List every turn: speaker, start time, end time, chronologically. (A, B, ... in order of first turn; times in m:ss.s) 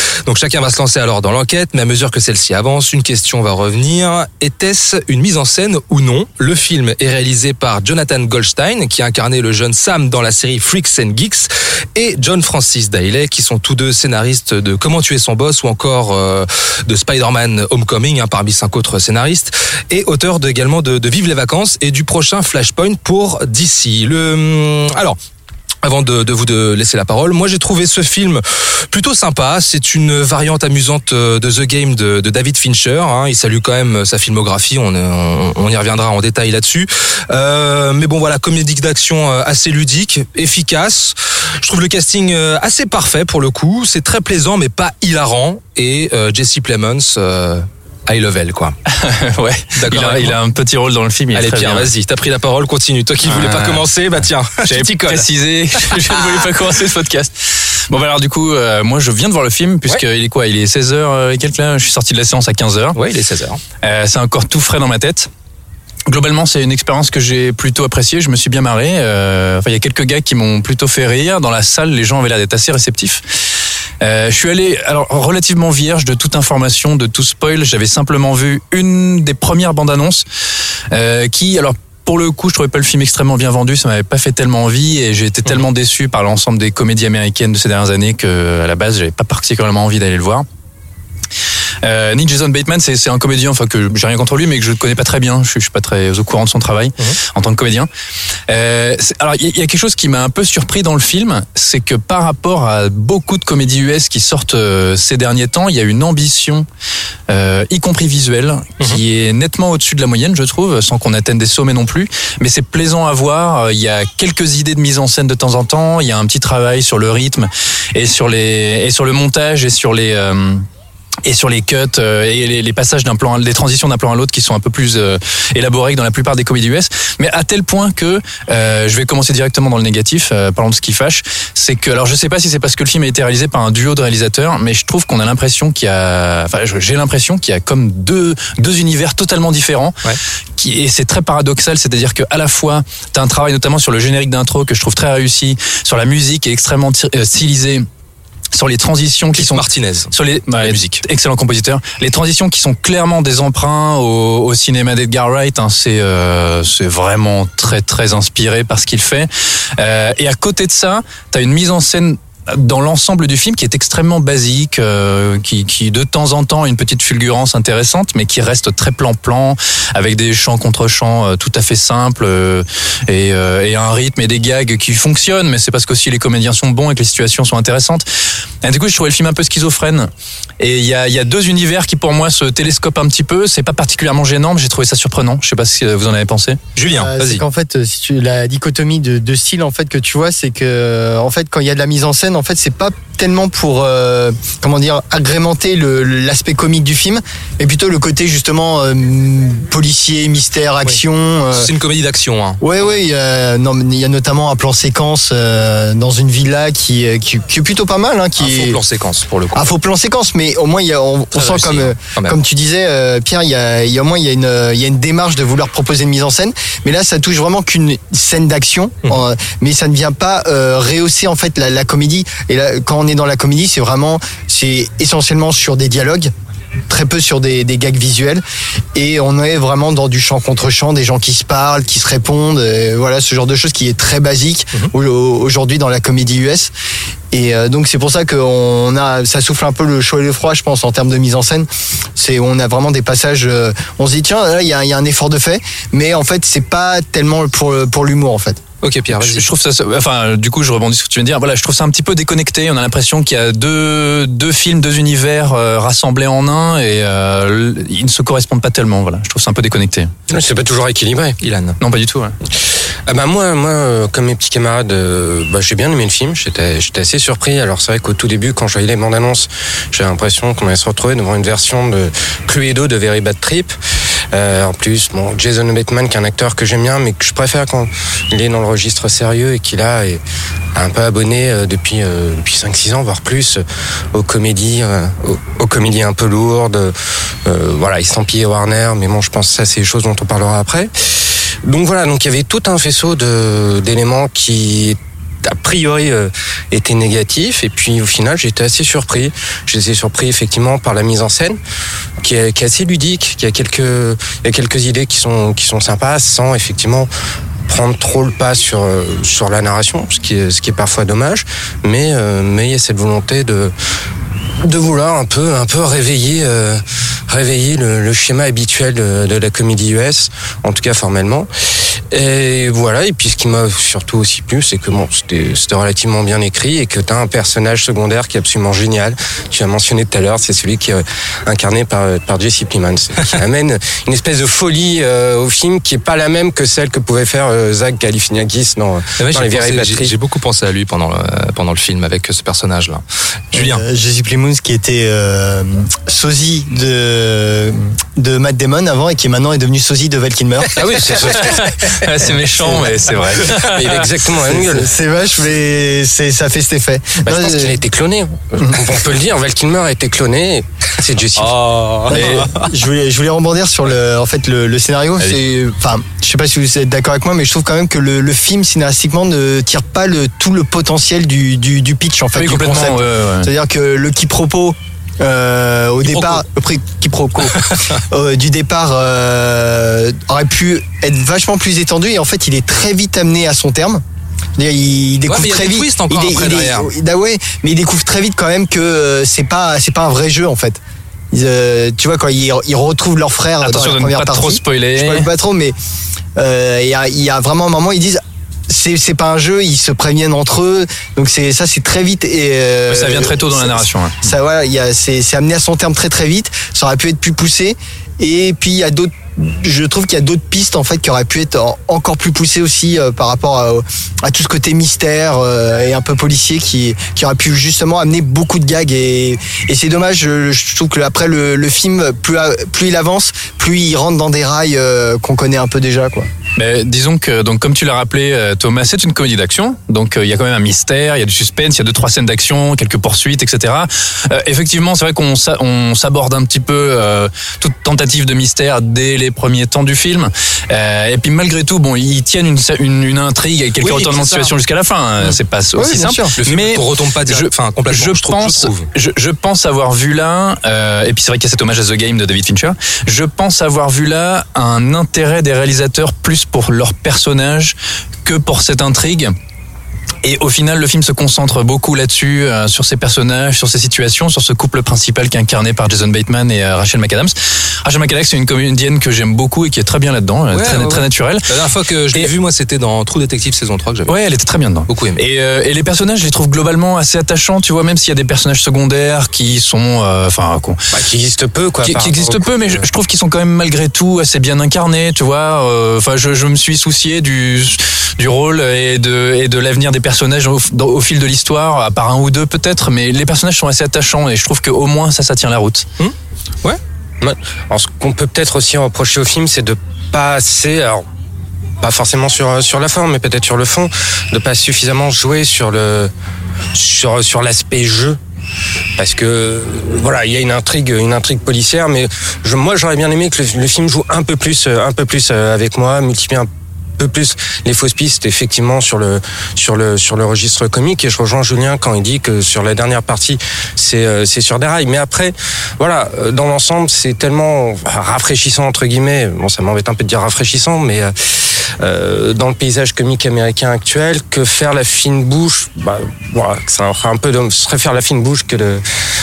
0:00.2-0:25.2 A
0:25.8-0:48.8 A
0:48.9-0:51.9 B
0:49.8-0:50.4 A
0:51.3-0:56.4 A
0:53.3-0:53.9 B
0:54.6-1:03.0 B
1:03.0-1:03.6 A
1:03.8-1:05.3 B
1:06.1-1:13.4 B
1:14.0-1:20.2 B
1:20.9-1:30.5 B
1:31.8-1:37.9 B
1:38.5-1:46.7 B
1:47.3-2:00.7 B
2:01.2-2:20.0 B
2:20.6-2:27.9 B
2:28.5-2:58.1 B
2:29.4-2:31.0 A
2:58.6-3:06.6 B
3:06.8-3:07.4 A
3:06.9-3:21.7 C
3:21.5-3:22.9 A
3:22.6-3:28.8 C
3:28.4-3:29.7 A
3:29.6-3:46.3 C
3:31.4-3:32.4 A
3:46.9-3:48.4 C
3:49.0-3:56.7 C
3:57.3-4:08.6 C
4:08.8-4:09.5 A
4:09.1-4:20.1 B
4:20.3-4:21.4 D
4:21.4-4:21.8 A
4:21.8-4:22.4 B
4:23.1-4:33.7 D
4:34.3-4:40.2 D
4:40.8-4:43.6 D
4:44.1-4:46.9 D
4:47.4-4:50.9 D
4:51.6-5:01.6 D
5:02.2-5:07.1 D
5:07.7-5:13.7 D
5:14.6-5:21.5 D
5:22.1-5:40.1 D
5:39.2-5:43.8 A
5:43.5-5:51.1 C
5:50.8-5:51.9 D
5:51.0-5:51.6 A
5:51.3-5:54.1 B
5:53.4-5:55.0 D
5:54.5-5:57.8 C
5:57.3-6:01.6 D
6:01.4-6:02.5 A
6:01.4-6:02.6 B
6:02.1-6:24.0 C
6:12.3-6:13.5 B
6:24.6-6:30.8 C
6:25.3-6:26.9 A
6:31.3-6:35.8 C
6:33.6-6:35.3 B
6:36.4-7:06.3 C
6:42.9-6:44.3 B
7:06.6-7:39.3 B
7:23.8-7:24.5 A
7:25.2-7:26.4 C
7:26.4-7:28.9 A
7:40.2-7:51.5 B
7:50.5-7:54.2 A
7:54.1-8:00.8 B
7:54.9-7:55.2 A
8:00.9-8:02.9 D
8:01.8-8:15.9 B
8:16.0-8:16.8 A
8:17.2-8:21.0 D
8:21.8-8:26.1 D
8:26.7-8:28.2 D
8:29.0-8:51.1 D
8:51.8-8:58.8 D